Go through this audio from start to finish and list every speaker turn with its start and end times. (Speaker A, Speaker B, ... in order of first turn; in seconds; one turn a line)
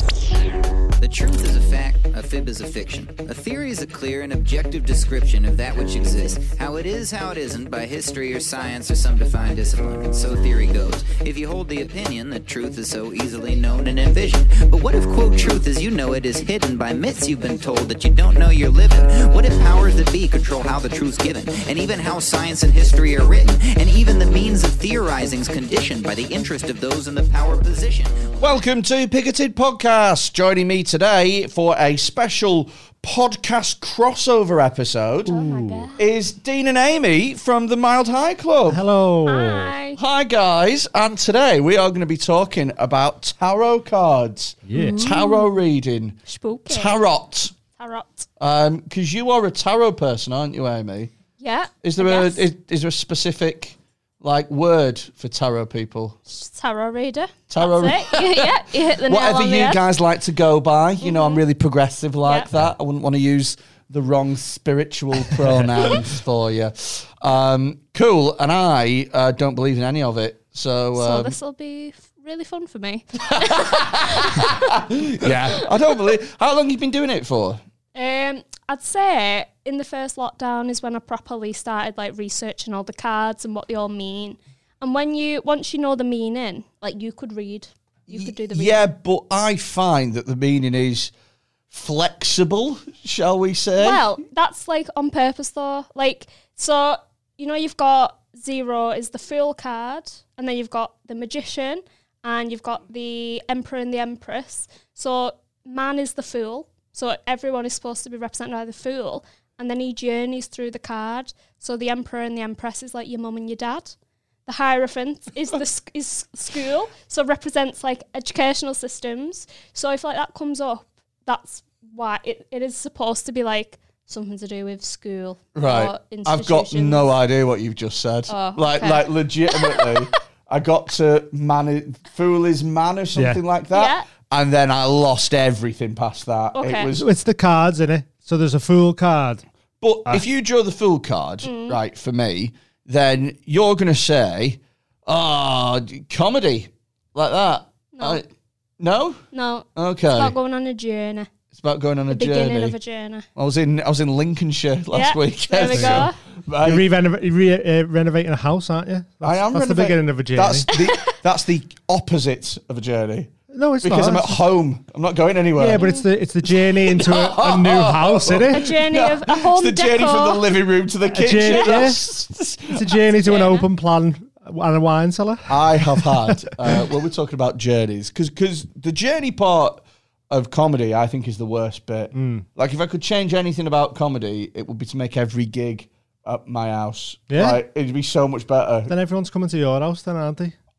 Speaker A: 1.0-28.4
Speaker B: 28.4-35.4
Speaker C: 35.2-36.0
Speaker D: 35.4-35.9
Speaker B: 36.0-38.8
Speaker D: 38.7-39.7
Speaker C: 39.2-40.0
Speaker B: 40.0-47.5
Speaker D: 44.6-45.1
Speaker C: 44.7-45.5
Speaker C: 46.2-47.0
Speaker C: 47.7-48.3
Speaker B: 48.4-51.1
Speaker C: 51.4-52.4
Speaker B: 51.8-56.2
Speaker C: 56.3-59.8
Speaker B: 57.5-71.3
Speaker C: 61.0-61.4
Speaker C: 70.9-75.3
Speaker B: 73.3-77.6
Speaker C: 77.9-88.8
Speaker B: 88.1-91.1
Speaker B: 91.7-94.0
Speaker C: 93.8-127.1
Speaker B: 125.5-137.1
Speaker C: 128.3-130.1
Speaker D: 133.2-133.4
Speaker C: 133.7-134.1
Speaker C: 136.5-136.9
Speaker D: 136.9-139.4
Speaker B: 139.8-148.2
Speaker C: 141.4-141.8
Speaker C: 147.9-148.2
Speaker B: 148.8-149.2
Speaker C: 149.3-151.3
Speaker B: 149.7-150.3
Speaker B: 151.5-152.8
Speaker C: 152.1-153.2
Speaker B: 153.3-156.9
Speaker C: 154.9-156.2
Speaker D: 155.7-156.1
Speaker D: 156.6-160.7
Speaker B: 159.2-165.9
Speaker D: 163.5-164.4
Speaker D: 165.6-168.6
Speaker C: 165.8-166.1
Speaker B: 166.5-173.0
Speaker C: 168.5-170.4
Speaker D: 171.1-172.0
Speaker C: 171.5-171.9
Speaker D: 172.7-175.8
Speaker C: 173.2-173.7
Speaker B: 175.5-188.9
Speaker D: 182.1-182.4
Speaker D: 187.3-187.6
Speaker D: 188.9-190.5